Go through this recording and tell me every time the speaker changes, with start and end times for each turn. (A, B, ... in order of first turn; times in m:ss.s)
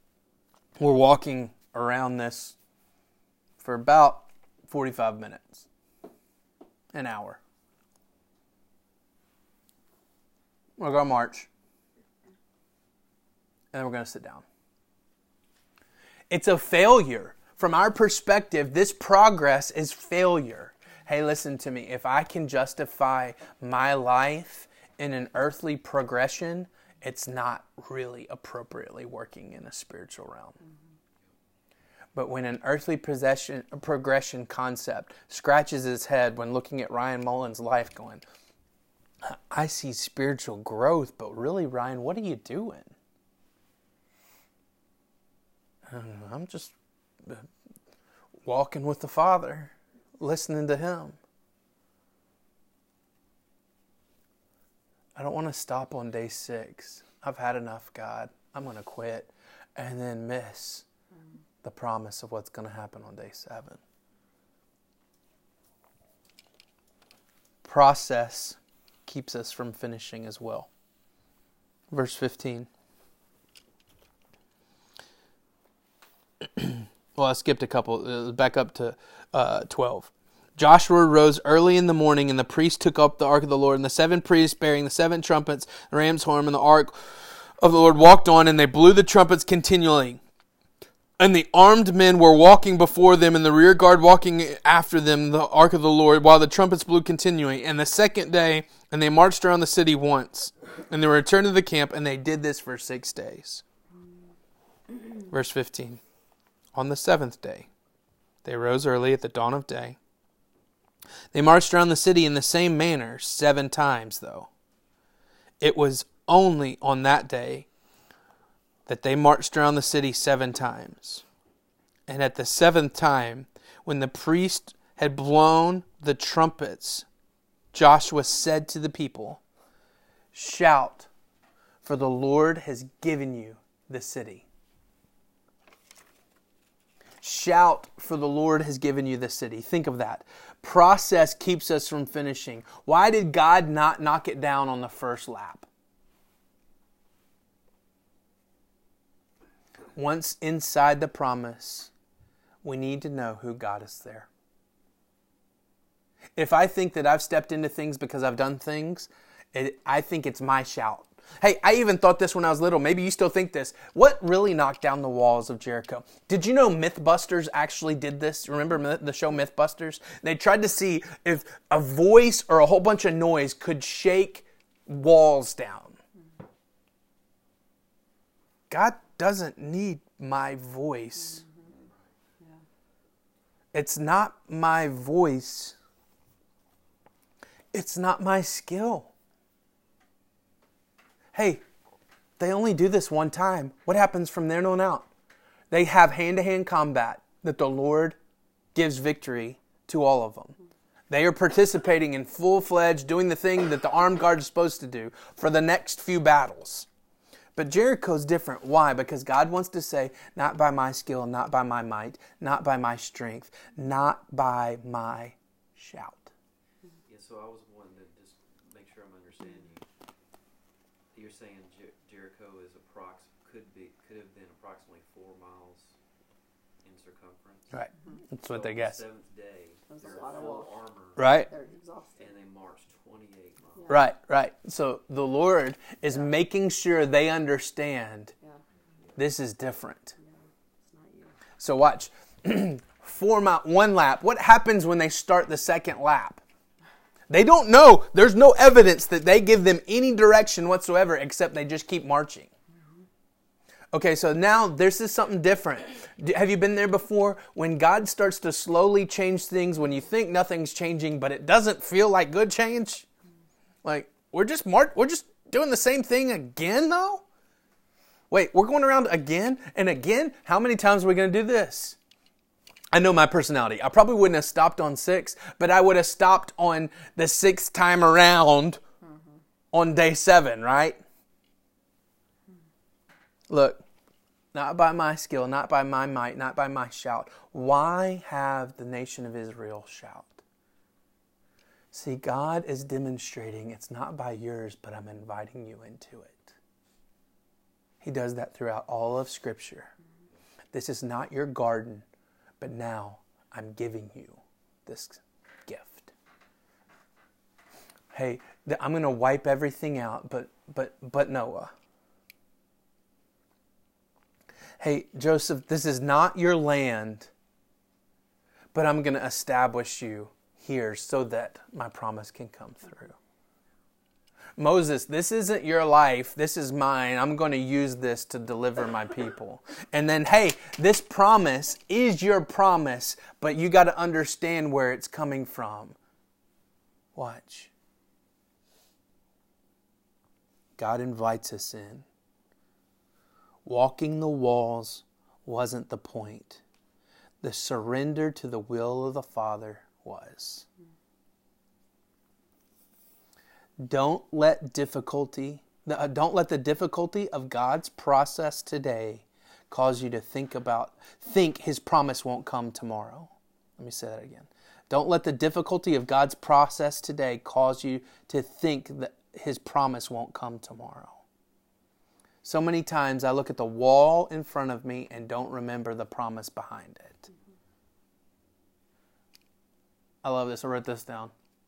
0:00.8-0:02.6 A
0:03.6-0:05.6 A
0:06.9-0:07.4 A
0:10.8-0:11.5 A
0:13.7-0:14.4 A
0:16.3-0:30.6 A
0:32.1-0:38.2 A
0:39.2-0:42.9 A
0:45.9-0:46.7 A
0:48.4-0:51.2 A
0:55.1-1:00.9 A
1:01.6-1:03.8 A
1:07.6-1:10.7 A
1:11.9-1:12.7 A
1:16.6-1:26.9 A
1:27.6-1:30.2 A
1:31.2-1:43.6 A
1:45.3-1:46.0 A
1:46.7-1:47.7 A
1:48.4-1:50.0 A
1:51.3-1:54.5 A
1:55.6-1:57.7 A
1:58.9-2:01.2 A
2:02.1-2:07.0 A
2:07.7-2:09.4 A
2:10.3-2:11.1 A
2:11.8-2:14.4 A
2:17.2-2:25.7 A
2:29.9-2:31.9 A
2:32.6-2:34.3 A
2:36.4-2:56.0 A
2:58.7-3:01.4 A
3:01.7-3:01.9 B
3:03.7-3:05.8 A
3:07.7-3:09.1 A
3:11.3-3:11.6 A
3:12.4-3:15.1 A
3:15.7-3:18.2 A
3:18.7-3:20.6 A
3:21.1-3:26.9 A
3:27.6-3:36.3 A
3:37.0-3:39.9 B
3:41.1-3:46.0 B
3:46.8-3:47.9 B
3:47.7-3:49.0 A
3:48.4-3:51.4 B
3:49.9-3:50.7 C
3:51.2-3:51.5 A
3:51.2-3:52.3 C
3:52.2-3:54.0 B
3:53.9-3:58.3 A
3:59.2-4:00.1 A
4:00.2-4:01.4 C
4:01.6-4:06.4 A
4:07.3-4:12.5 A
4:13.9-4:23.0 A
4:23.8-4:27.2 A
4:28.3-4:32.0 A
4:32.9-4:38.8 A
4:39.0-4:39.4 C
4:39.7-4:41.0 A
4:43.5-4:43.8 A
4:44.5-4:50.4 A
4:51.9-4:56.5 A
4:58.0-4:59.9 A
5:00.7-5:02.0 A
5:02.6-5:06.1 A
5:08.1-5:11.7 A
5:14.8-5:17.3 A
5:18.7-5:23.1 A
5:24.6-5:36.0 A
5:37.1-5:37.7 A
5:40.8-5:42.0 A
5:43.6-5:46.6 A
5:47.4-5:50.6 A
5:53.8-6:11.2 A
6:12.4-6:17.2 A
6:20.2-6:21.3 A